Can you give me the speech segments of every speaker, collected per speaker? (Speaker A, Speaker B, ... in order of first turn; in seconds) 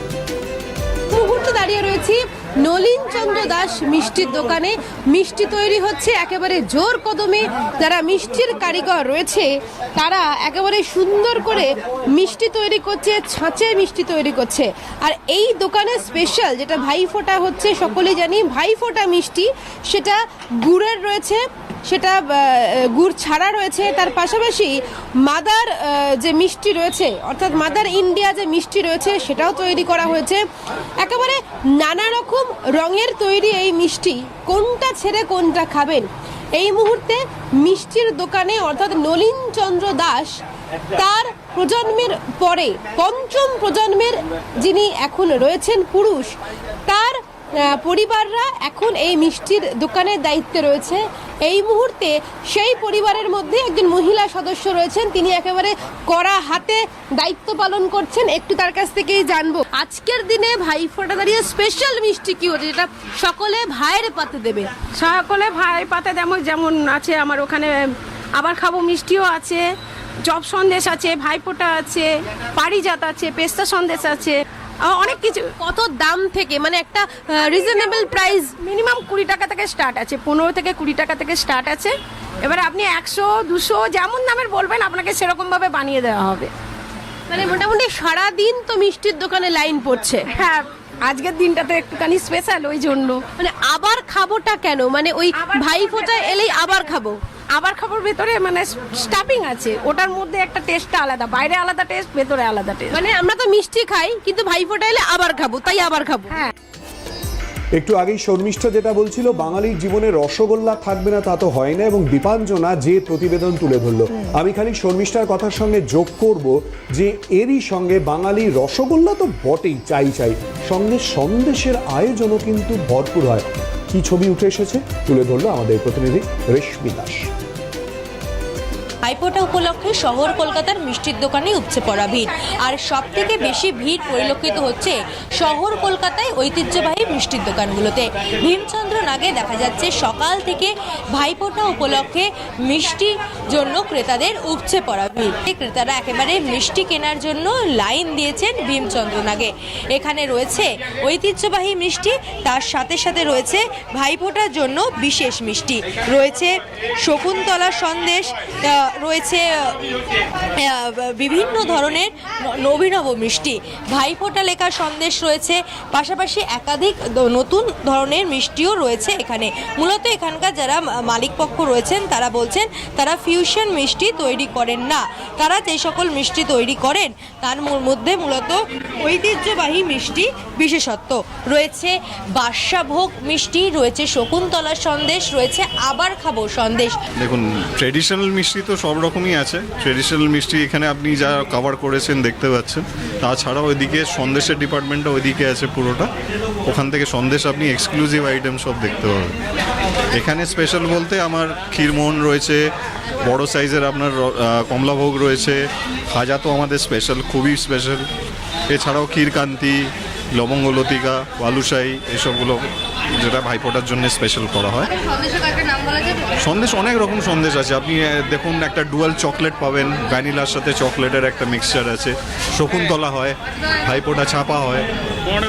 Speaker A: 1.1-30.4, 31.0-40.4, 41.0-46.4, 46.9-64.9, 75.2-78.7, 87.3-90.4, 93.3-97.2, 102.9-106.5
Speaker B: 64.9-69.7, 70.2-75.5, 78.5-86.5, 90.3-93.2, 95.6-96.0, 97.5-103.0
Speaker C: 107.7-127.3
Speaker D: 129.0-159.8, 160.6-187.0
Speaker E: 187.2-196.1, 196.7-199.3, 200.1-202.6, 203.2-208.1, 208.7-212.6, 213.1-214.9, 216.4-224.9